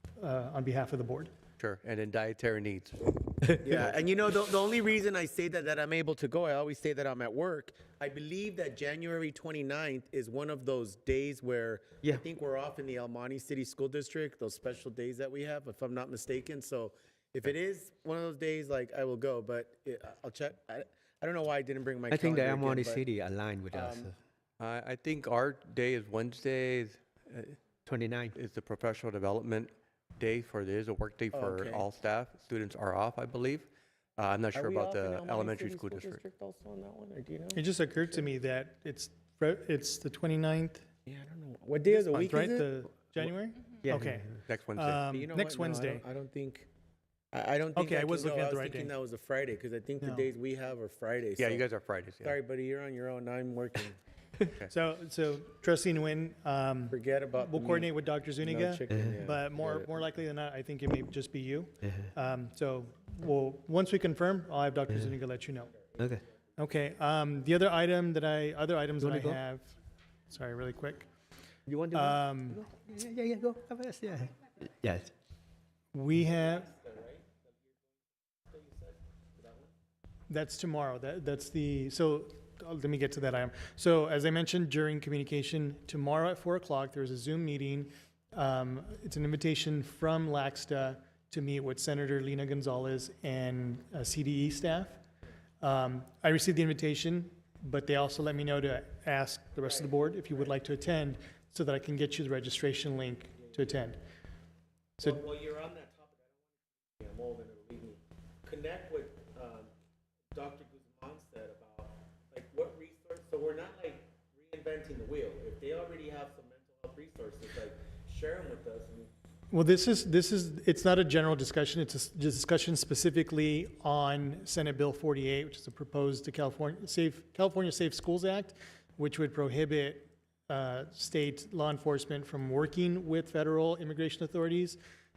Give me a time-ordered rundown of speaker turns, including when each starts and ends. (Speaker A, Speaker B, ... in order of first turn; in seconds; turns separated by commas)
Speaker A: 0.2-1.3, Speaker B: 1.6-3.9, Speaker C: 3.6-23.1, Speaker D: 22.1-24.2, Speaker C: 23.7-24.1, Speaker B: 24.6-27.6, Speaker D: 27.9-28.4, Speaker B: 28.3-36.2, Speaker C: 31.3-31.9, Speaker C: 34.5-38.2, Speaker A: 37.5-40.8, Speaker C: 41.1-42.7, Speaker A: 41.9-46.0, Speaker D: 43.8-44.2, Speaker B: 44.5-45.0, Speaker C: 45.1-46.7, Speaker C: 47.3-51.7, Speaker A: 47.8-48.9, Speaker A: 50.0-50.3, Speaker B: 51.4-52.4, Speaker C: 52.2-54.0, Speaker A: 54.7-65.7, Speaker C: 56.9-60.0, Speaker D: 58.9-59.2, Speaker D: 61.8-62.1, Speaker D: 64.9-65.2, Speaker C: 65.8-66.3, Speaker A: 66.6-69.7, Speaker D: 69.0-69.4, Speaker A: 70.3-71.1, Speaker D: 71.7-75.1, Speaker A: 71.9-72.6, Speaker A: 75.9-76.7, Speaker C: 76.3-79.7, Speaker A: 80.3-95.0, Speaker A: 95.6-104.0, Speaker C: 99.6-100.5, Speaker C: 103.5-103.8, Speaker C: 105.0-109.7, Speaker C: 110.3-119.1, Speaker A: 119.5-134.8